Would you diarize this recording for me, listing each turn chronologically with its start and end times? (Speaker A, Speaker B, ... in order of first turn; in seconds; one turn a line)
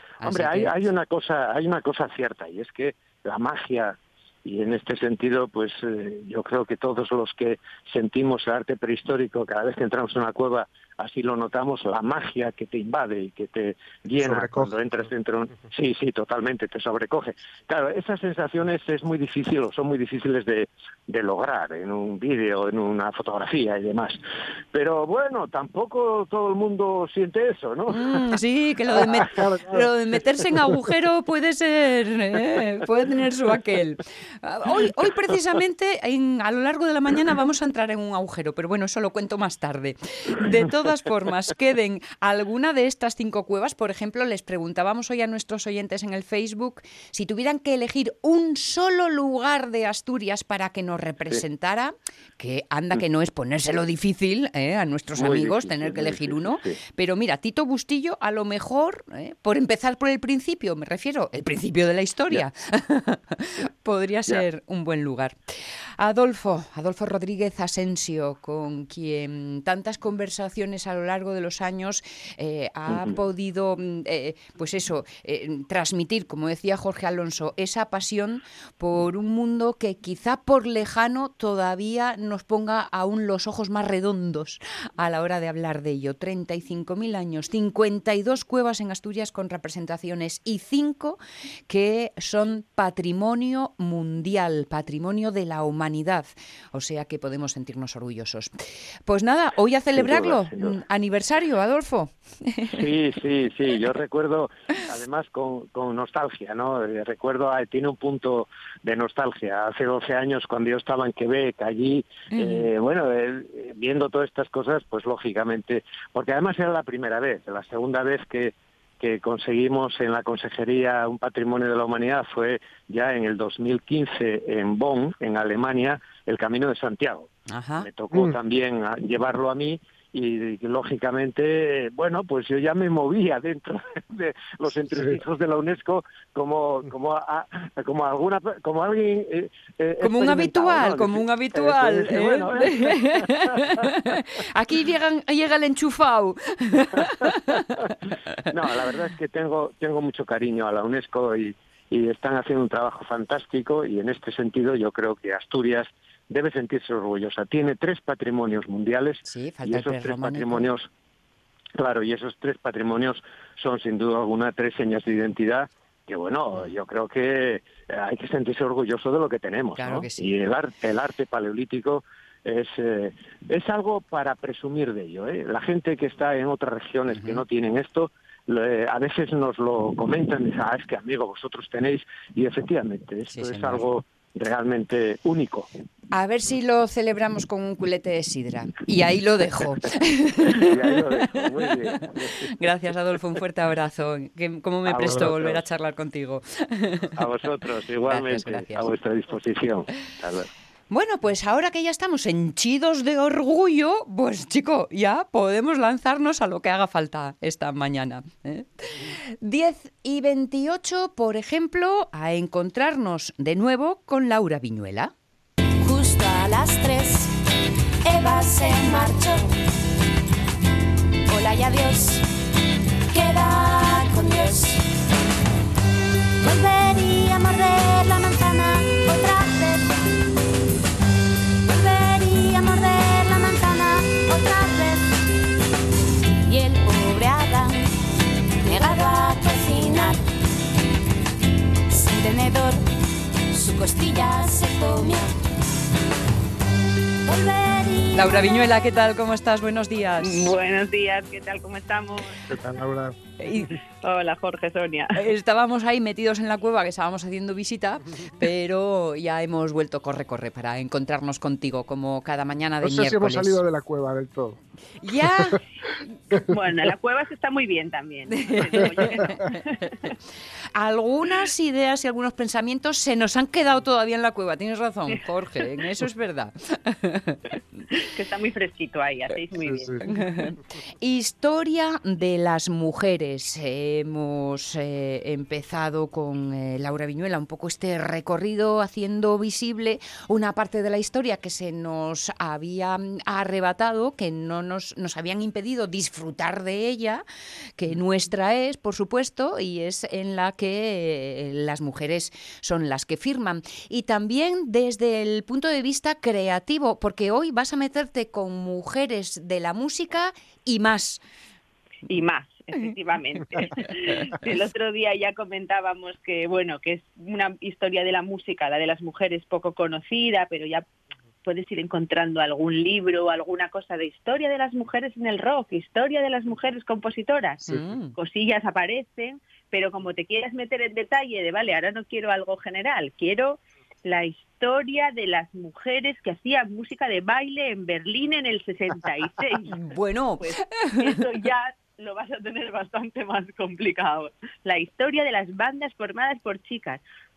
Speaker A: 0.2-0.7
Speaker B: 0.2-24.2
Speaker C: 14.2-14.7
Speaker B: 24.7-28.2
Speaker A: 27.9-98.5
Speaker C: 29.3-29.8
Speaker B: 55.2-56.8
Speaker B: 72.9-73.2
Speaker A: 99.1-102.8
Speaker B: 99.9-100.8
Speaker B: 102.7-143.7
Speaker A: 112.3-112.7
Speaker A: 127.5-127.9
Speaker C: 134.9-135.2
Speaker A: 140.0-147.7
Speaker B: 148.5-160.9
Speaker A: 159.2-160.7
Speaker B: 161.8-185.7
Speaker A: 169.8-170.3
Speaker A: 177.1-177.4
Speaker A: 183.3-183.8
Speaker A: 186.1-191.0
Speaker B: 190.5-192.5
Speaker A: 191.7-197.1
Speaker B: 194.9-195.6
Speaker B: 197.2-200.5
Speaker A: 198.1-198.9
Speaker A: 200.9-215.1
Speaker D: 215.8-217.3
Speaker D: 218.1-219.5
Speaker D: 221.3-222.2
Speaker D: 223.1-224.8
Speaker D: 226.4-230.0
Speaker D: 231.7-235.2
Speaker D: 236.4-237.9
Speaker D: 238.6-240.2
Speaker D: 241.9-242.8
Speaker D: 243.5-245.3
Speaker D: 247.2-248.6
Speaker A: 248.1-250.6
Speaker E: 250.2-252.4
Speaker C: 252.5-253.2
Speaker A: 253.4-253.7
Speaker E: 253.6-255.2
Speaker A: 255.1-263.6
Speaker C: 262.8-264.6
Speaker A: 265.0-265.6
Speaker E: 266.4-269.9
Speaker A: 268.3-270.1
Speaker A: 270.7-277.4
Speaker E: 278.1-280.1
Speaker C: 279.6-280.0
Speaker A: 280.0-297.2
Speaker A: 297.8-311.2
Speaker E: 312.1-320.9
Speaker E: 321.4-339.8
Speaker A: 327.6-328.1
Speaker A: 339.7-341.2
Speaker E: 340.4-347.0